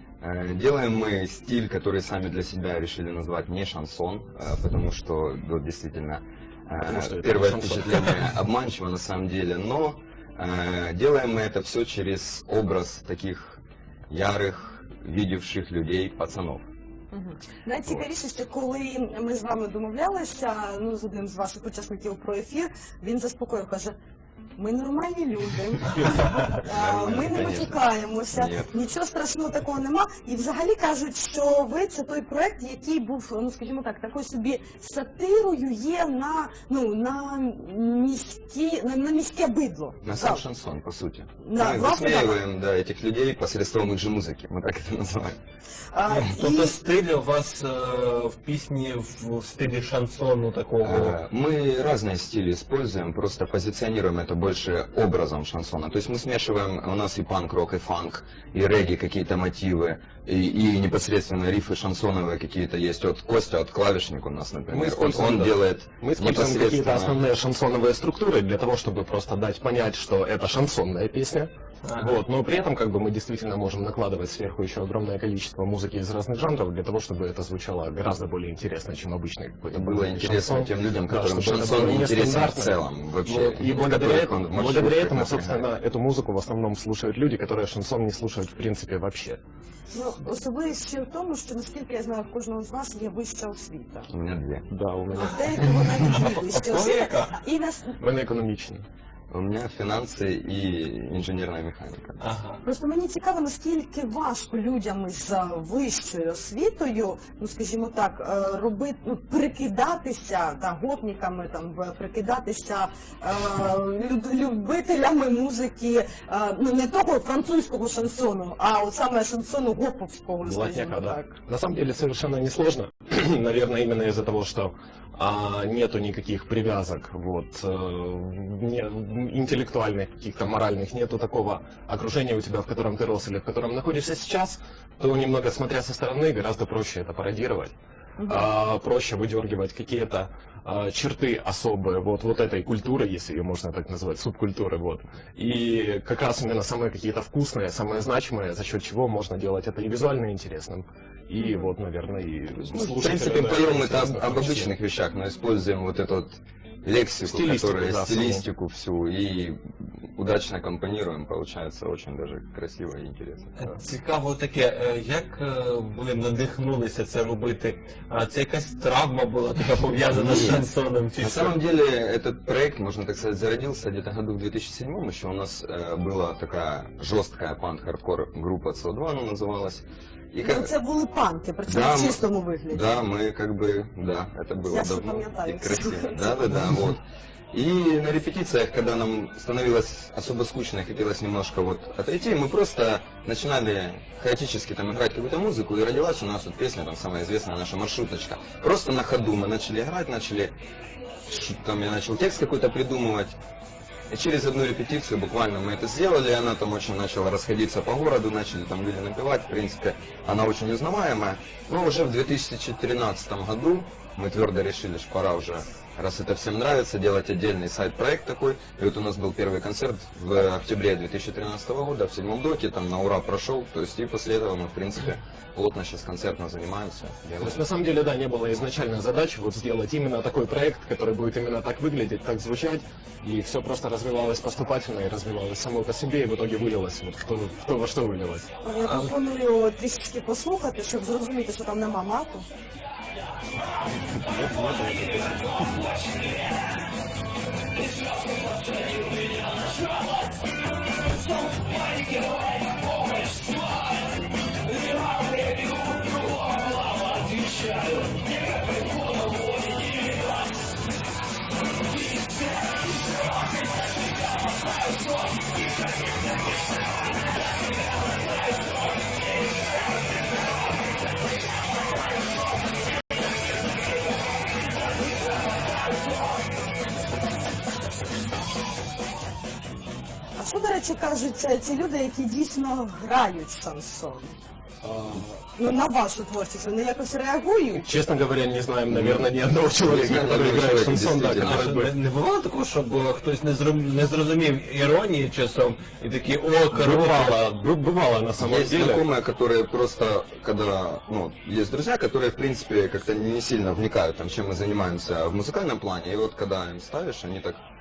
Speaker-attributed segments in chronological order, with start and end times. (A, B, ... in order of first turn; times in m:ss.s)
0:00.2-0:16.7 A
0:06.9-0:08.1 B
0:17.1-0:24.0 C
0:24.6-0:40.4 C
0:26.6-0:27.8 A
0:28.3-0:28.7 A
0:40.0-0:45.4 A
0:41.4-0:42.4 C
0:45.9-0:46.8 C
0:46.1-0:51.2 D
0:50.8-1:07.2 A
1:04.7-1:29.4 B
1:11.8-1:12.2 D
1:19.7-1:25.7 A
1:29.9-1:34.1 C
1:34.1-1:34.7 A
1:34.7-1:35.3 B
1:35.1-1:37.9 C
1:35.4-1:35.9 A
1:35.8-1:37.3 D
1:38.0-1:38.9 B
1:39.3-1:42.2 A
1:42.2-1:42.6 D
1:42.6-2:01.4 C
2:00.4-2:17.7 B
2:18.2-2:18.5 C
2:18.2-2:34.7 B
2:31.4-2:31.7 C
2:32.6-2:43.8 A
2:37.2-2:38.4 B
2:43.6-2:51.6 D
2:50.1-2:50.6 A
2:51.2-3:00.7 A
3:00.4-3:02.9 C
3:01.7-3:07.0 A
3:04.7-3:06.6 C
3:07.5-3:20.5 A
3:21.3-3:23.4 A
3:24.1-3:47.6 A
3:47.4-3:58.5 B
3:58.6-4:02.5 C
4:04.3-4:05.5 B
4:04.3-4:05.2 D
4:15.9-4:16.5 D
4:17.1-4:17.8 D
4:40.4-4:44.4 C
4:44.8-4:45.4 B
4:45.6-4:47.8 C
4:47.7-4:51.9 B
4:48.9-4:49.3 A
4:49.8-4:51.6 A
4:51.4-4:57.4 D
4:56.7-4:59.0 B
4:58.4-5:07.6 A